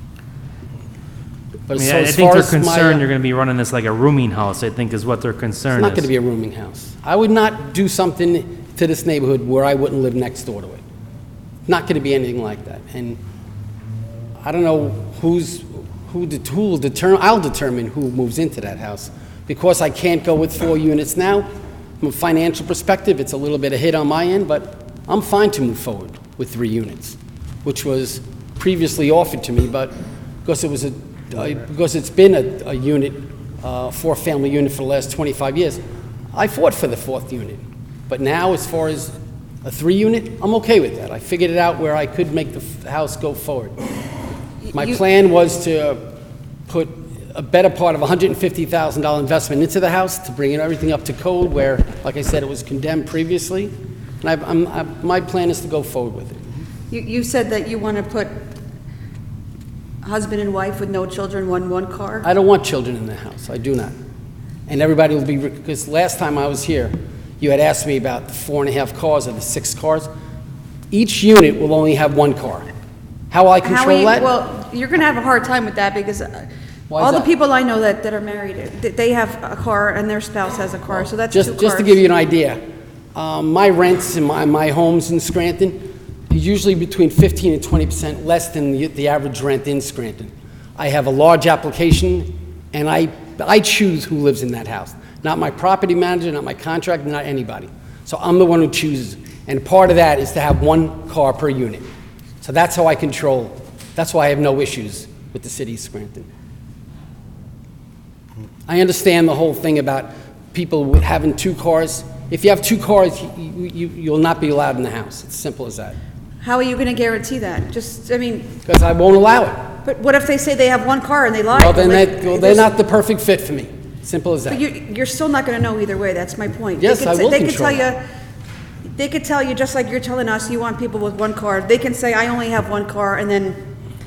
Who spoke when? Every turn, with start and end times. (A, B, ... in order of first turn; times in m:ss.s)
0:01.7-0:03.1 A
0:01.8-0:06.1 B
0:05.7-0:10.8 A
0:11.7-0:13.2 A
0:14.4-0:21.5 A
0:22.0-0:29.9 A
0:30.4-0:35.8 A
0:36.3-0:43.8 A
0:44.7-0:46.0 A
0:46.7-0:56.4 A
0:56.9-0:58.5 C
1:00.0-1:02.3 C
1:02.2-1:03.9 A
1:04.7-1:10.1 A
1:10.9-1:12.7 A
1:13.3-1:14.3 A
1:13.6-1:22.0 C
1:16.9-1:17.3 A
1:21.3-1:22.6 A
1:23.2-1:41.9 A
1:42.4-1:46.3 A
1:48.7-1:56.0 A
1:56.4-1:58.6 C
1:58.6-1:59.7 A
1:59.8-2:02.7 C
2:01.5-2:04.6 A
2:04.5-2:08.0 C
2:06.8-2:07.8 A
2:09.0-2:13.6 C